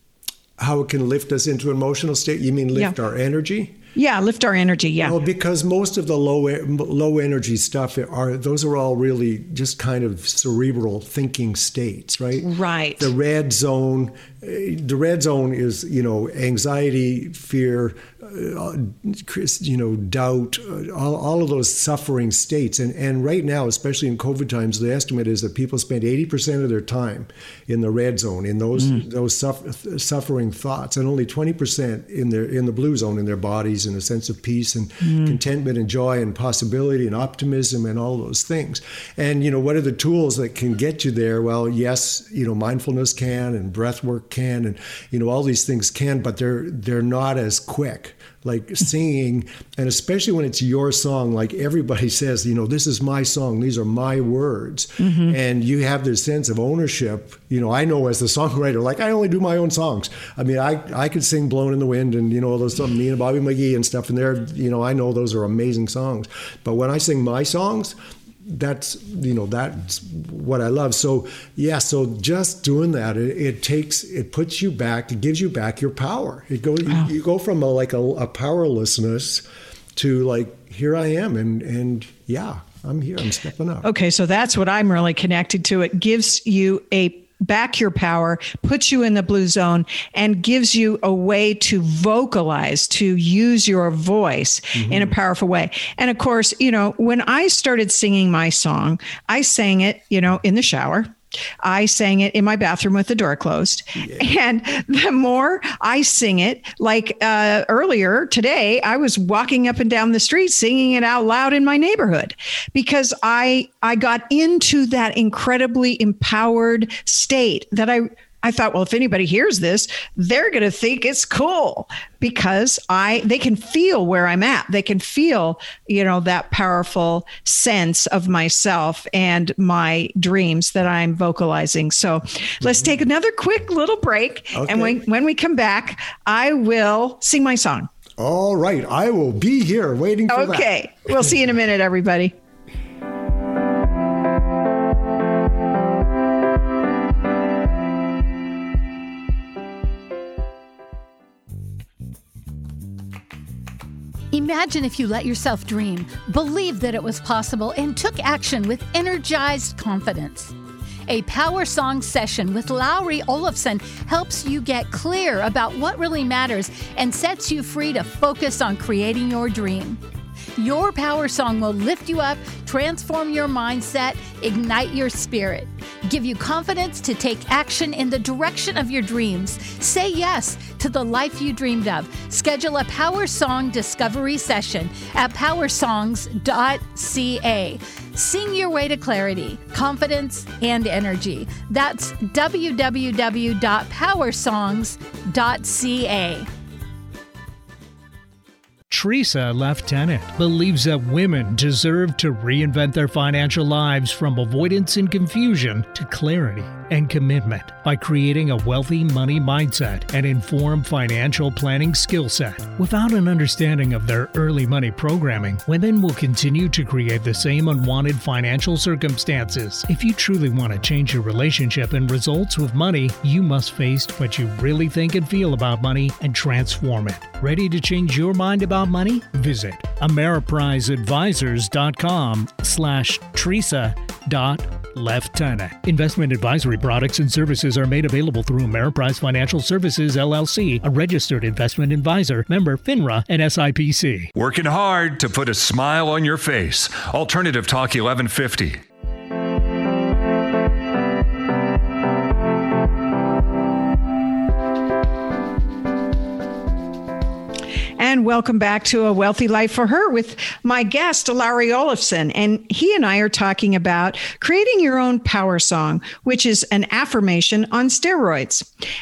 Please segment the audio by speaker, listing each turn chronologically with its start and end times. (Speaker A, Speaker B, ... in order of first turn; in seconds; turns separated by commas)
Speaker A: 0.6-3.8, Speaker B: 3.9-5.2, Speaker A: 5.0-83.9, Speaker B: 12.4-13.1, Speaker B: 35.0-35.3, Speaker B: 55.0-55.4, Speaker B: 83.8-137.9, Speaker A: 94.8-95.1, Speaker A: 132.6-132.9, Speaker A: 134.5-135.0, Speaker A: 138.2-140.7, Speaker B: 140.3-142.3, Speaker C: 154.3-160.5, Speaker C: 161.1-170.0, Speaker C: 170.6-196.5, Speaker D: 198.9-244.3, Speaker E: 244.3-248.8, Speaker B: 258.0-268.7